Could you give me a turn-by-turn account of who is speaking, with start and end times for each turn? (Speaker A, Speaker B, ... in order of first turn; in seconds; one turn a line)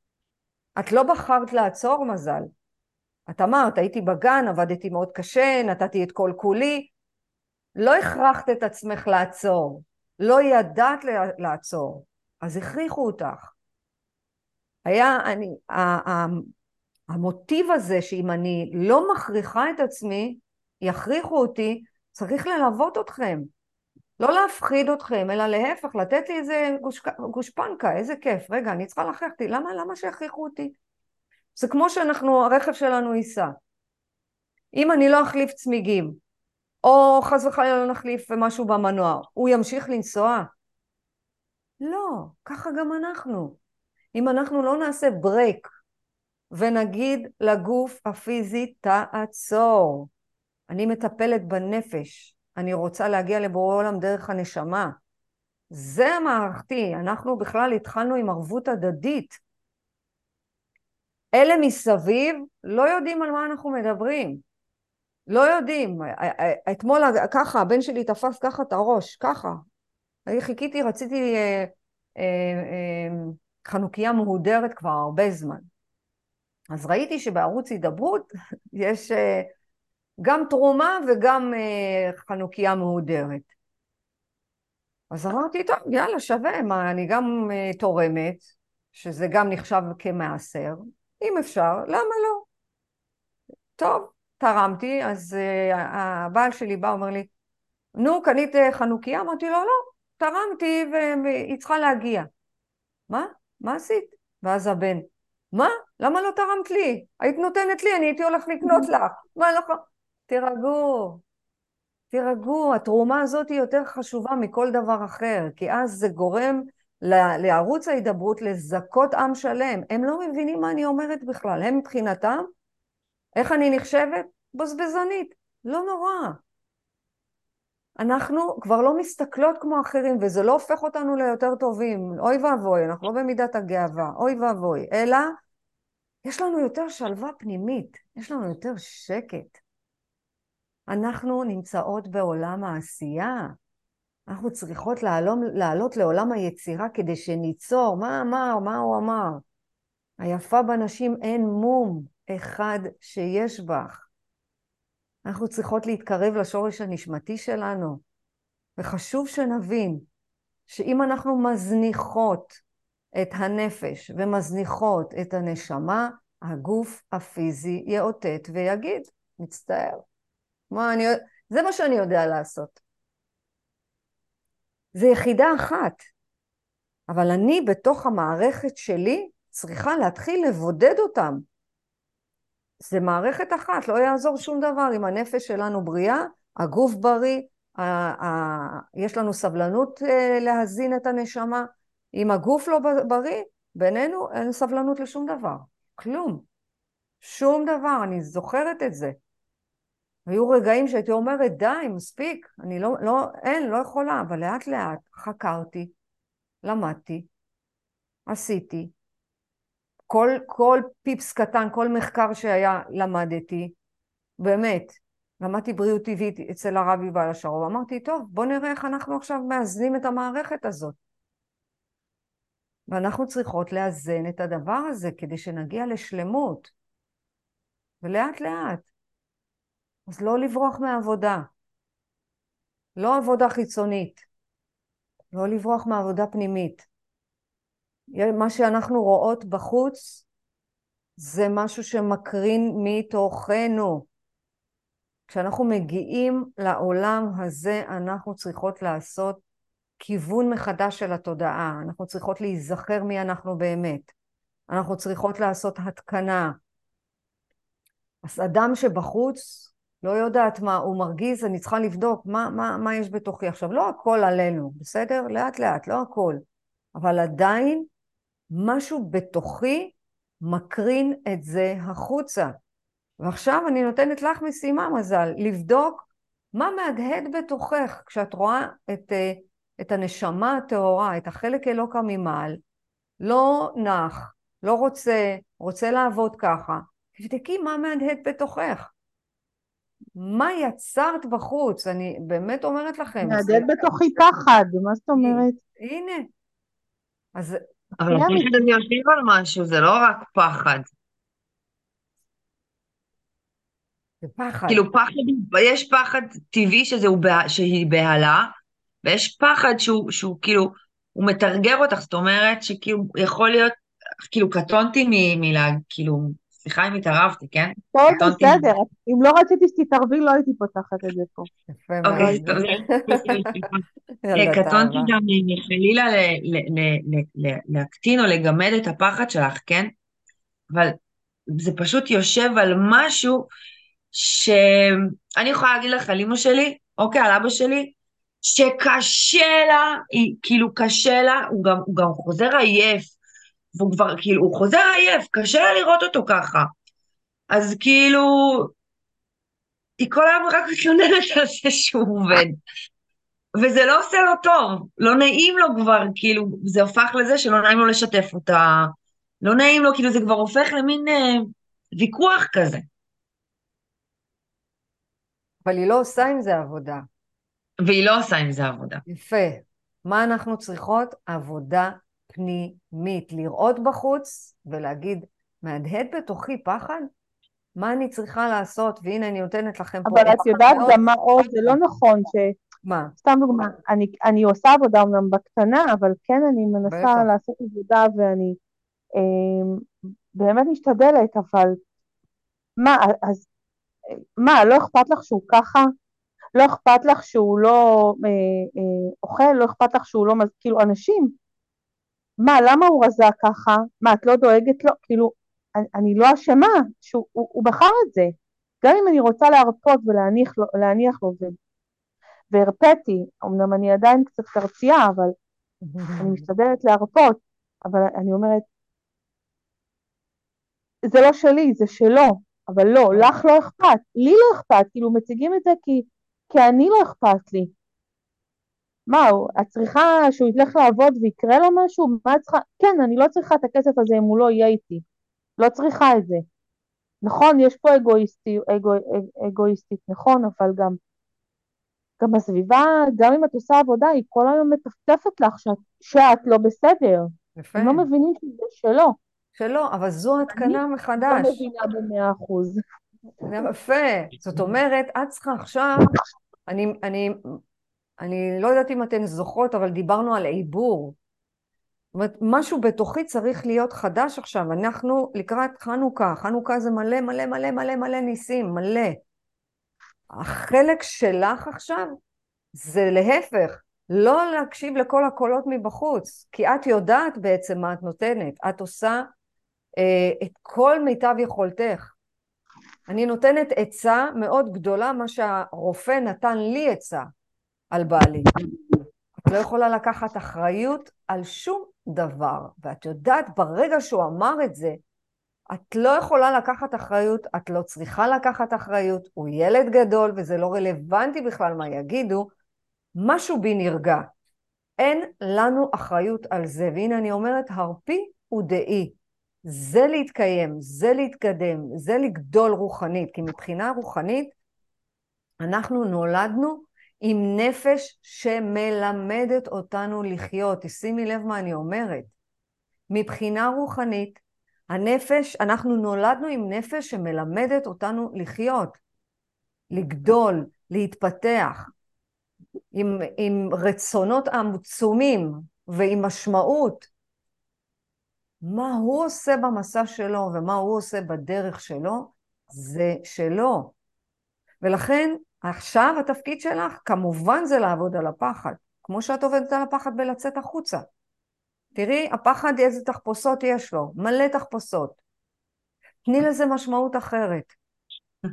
Speaker A: 0.8-2.5
Speaker A: 3.3-6.9
Speaker A: 7.8-13.5
Speaker A: 14.8-16.5
Speaker A: 17.1-23.5
Speaker A: 24.2-30.8
Speaker A: 31.6-33.5
Speaker A: 34.7-36.2
Speaker A: 36.8-40.5
Speaker A: 41.8-43.6
Speaker A: 44.1-45.7
Speaker A: 46.5-50.1
Speaker A: 50.7-55.0
Speaker A: 55.7-59.4
Speaker A: 61.4-64.4
Speaker A: 65.3-69.6
Speaker A: 70.3-75.7
Speaker A: 76.7-79.5
Speaker A: 80.2-83.5
Speaker A: 85.1-92.5
Speaker A: 93.8-97.3
Speaker A: 98.0-102.3
Speaker A: 103.1-111.2
Speaker A: 112.1-122.5
Speaker A: 123.4-126.4
Speaker A: 128.0-135.4
Speaker A: 136.2-139.6
Speaker A: 140.9-143.6
Speaker A: 144.3-149.4
Speaker A: 150.2-154.1
Speaker A: 155.2-158.0
Speaker A: 158.8-160.1
Speaker A: 160.7-162.6
Speaker A: 163.2-170.0
Speaker A: 170.7-172.8
Speaker A: 174.9-176.1
Speaker A: 177.1-181.4
Speaker A: 182.8-196.4
Speaker A: 197.2-199.2
Speaker A: 200.3-205.9
Speaker A: 206.6-207.3
Speaker A: 208.3-208.9
Speaker A: 210.1-213.8
Speaker A: 214.4-221.0
Speaker A: 222.9-226.7
Speaker A: 228.0-228.9
Speaker A: 230.1-231.5
Speaker A: 233.0-234.2
Speaker A: 235.3-236.9
Speaker A: 238.1-240.2
Speaker A: 241.2-244.1
Speaker A: 245.3-249.4
Speaker A: 250.0-254.1
Speaker A: 254.7-256.6
Speaker A: 258.2-266.4
Speaker A: 266.9-267.9
Speaker A: 268.5-272.6
Speaker A: 273.2-282.6
Speaker A: 283.2-288.9
Speaker A: 290.2-293.9
Speaker B: 293.2-295.6
Speaker A: 295.2-296.3
Speaker A: 297.4-298.3
Speaker C: 298.0-300.9
Speaker B: 298.1-298.4
Speaker A: 304.2-304.8
Speaker C: 304.7-318.7
Speaker B: 317.9-321.5
Speaker A: 321.7-323.7
Speaker C: 322.0-329.9
Speaker B: 322.2-322.4
Speaker A: 324.2-325.1
Speaker C: 330.7-331.0
Speaker C: 331.5-333.5
Speaker C: 334.1-343.1
Speaker C: 343.7-346.7
Speaker C: 347.5-348.7
Speaker C: 350.0-352.6
Speaker C: 353.6-362.9
Speaker A: 365.6-367.1
Speaker C: 367.8-369.0
Speaker A: 369.1-377.1
Speaker A: 377.8-381.0
Speaker B: 380.1-382.6
Speaker A: 382.9-383.1
Speaker B: 383.2-388.6
Speaker A: 386.9-387.3
Speaker B: 389.1-391.8
Speaker B: 392.8-393.4
Speaker B: 394.1-395.9
Speaker B: 396.6-401.4
Speaker B: 402.4-411.6
Speaker B: 412.5-415.4
Speaker A: 415.8-416.5
Speaker B: 416.2-418.6
Speaker B: 421.1-427.7
Speaker B: 429.1-435.0
Speaker B: 435.6-436.4
Speaker B: 437.2-441.0
Speaker B: 442.2-449.2
Speaker A: 447.6-448.1
Speaker A: 449.6-451.6
Speaker B: 450.5-452.8
Speaker A: 453.4-456.2
Speaker A: 456.7-457.6
Speaker A: 458.2-461.2
Speaker A: 462.1-469.2
Speaker A: 470.3-472.2
Speaker A: 472.8-479.3
Speaker A: 480.0-482.1
Speaker A: 483.1-487.3
Speaker A: 487.9-488.5
Speaker A: 489.4-495.0
Speaker A: 495.7-502.5
Speaker A: 503.2-504.3
Speaker A: 505.0-514.5
Speaker A: 515.6-522.3
Speaker A: 523.1-529.0
Speaker A: 529.9-531.9
Speaker A: 532.9-537.1
Speaker A: 538.6-543.9
Speaker A: 544.8-551.1
Speaker A: 552.0-555.2
Speaker A: 556.3-557.7